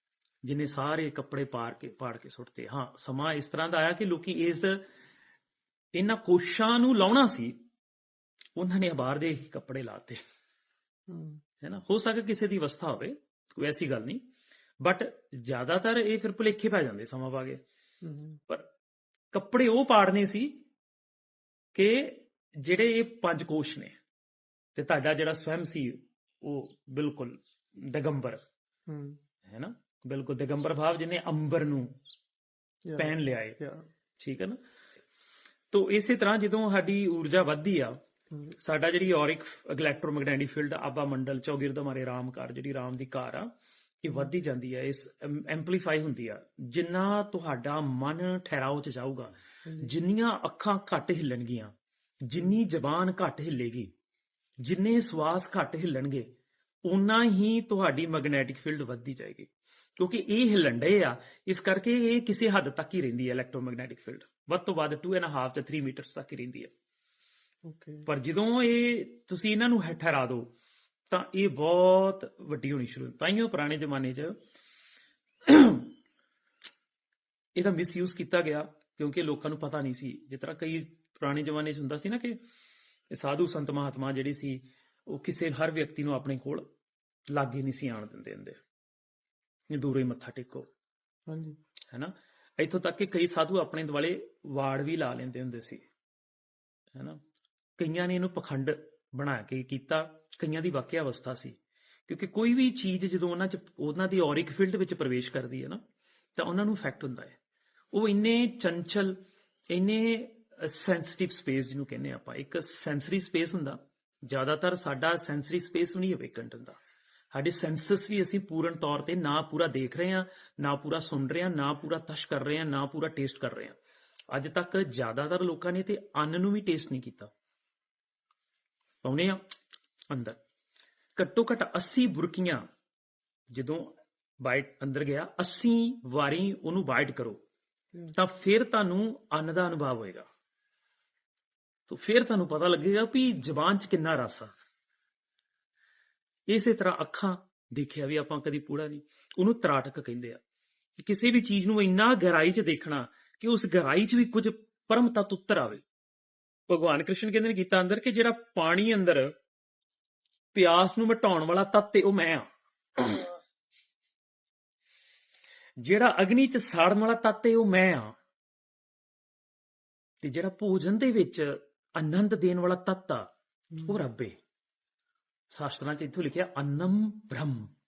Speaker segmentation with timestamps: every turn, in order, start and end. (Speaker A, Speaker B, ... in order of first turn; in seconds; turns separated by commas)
Speaker A: 0.4-4.8, Speaker A: 6.0-7.5, Speaker A: 8.6-10.2, Speaker B: 11.1-11.4, Speaker A: 11.6-14.2, Speaker A: 14.8-17.6, Speaker B: 18.0-18.4, Speaker A: 19.3-20.5, Speaker A: 21.7-23.9, Speaker A: 24.7-28.4, Speaker B: 28.9-29.2, Speaker A: 29.4-31.9, Speaker B: 32.9-33.9, Speaker A: 33.0-33.6, Speaker A: 34.2-34.6, Speaker A: 35.7-38.0, Speaker A: 38.6-43.5, Speaker A: 44.0-51.7, Speaker B: 49.6-49.9, Speaker A: 52.2-53.9, Speaker A: 54.6-56.3, Speaker A: 56.8-66.7, Speaker B: 67.7-68.1, Speaker A: 68.1-70.5, Speaker A: 71.1-74.3, Speaker A: 75.5-75.9, Speaker A: 77.5-82.4, Speaker A: 83.1-86.6, Speaker A: 87.3-88.6, Speaker A: 89.7-90.7, Speaker B: 91.3-91.6, Speaker A: 91.9-95.8, Speaker A: 96.9-97.2, Speaker A: 97.8-105.8, Speaker A: 106.4-107.4, Speaker A: 107.9-109.1, Speaker A: 109.7-116.8, Speaker A: 117.3-123.8, Speaker A: 124.3-127.3, Speaker A: 129.0-129.4, Speaker A: 130.1-130.4, Speaker A: 131.2-132.6, Speaker A: 133.5-133.9, Speaker A: 134.4-137.4, Speaker A: 138.1-140.2, Speaker A: 141.9-144.5, Speaker A: 146.5-150.4, Speaker A: 151.0-155.8, Speaker A: 156.7-159.3, Speaker A: 160.5-162.4, Speaker A: 163.0-163.3, Speaker A: 165.8-168.1, Speaker A: 170.2-173.2, Speaker B: 173.7-174.0, Speaker A: 173.8-174.3, Speaker A: 175.5-177.7